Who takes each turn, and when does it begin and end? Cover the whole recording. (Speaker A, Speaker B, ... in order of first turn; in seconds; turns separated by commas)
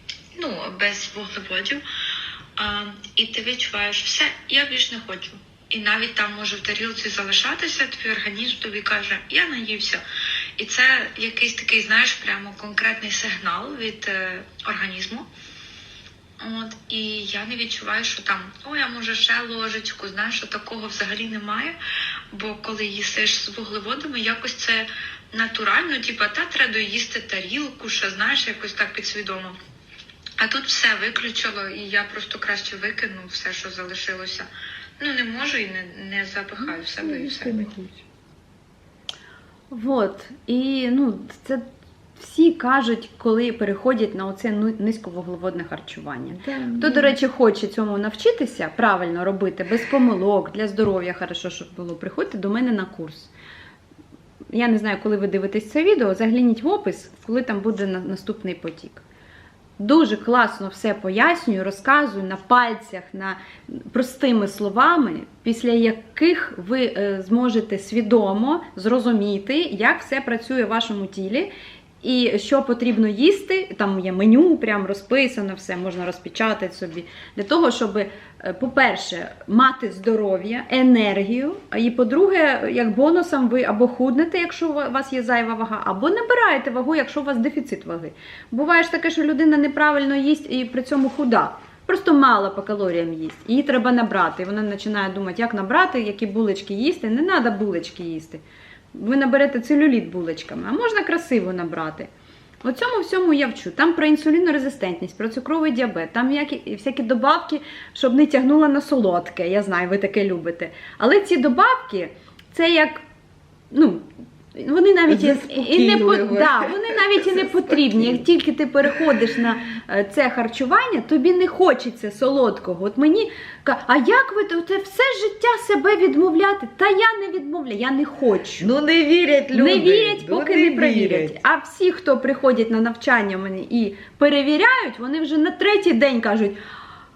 Speaker A: 0.4-1.8, Speaker A: 2.6-10.0, Speaker A: 10.6-15.3, Speaker A: 16.4-21.8, Speaker A: 22.3-29.6, Speaker A: 30.4-34.5, Speaker A: 35.0-37.6, Speaker B: 36.6-38.0, Speaker C: 39.7-41.6, Speaker C: 42.1-53.3, Speaker B: 46.3-47.1, Speaker C: 54.5-59.0, Speaker C: 59.8-102.1, Speaker C: 102.6-113.0, Speaker C: 113.7-128.7, Speaker B: 115.1-118.3, Speaker B: 128.6-131.4, Speaker C: 129.5-136.6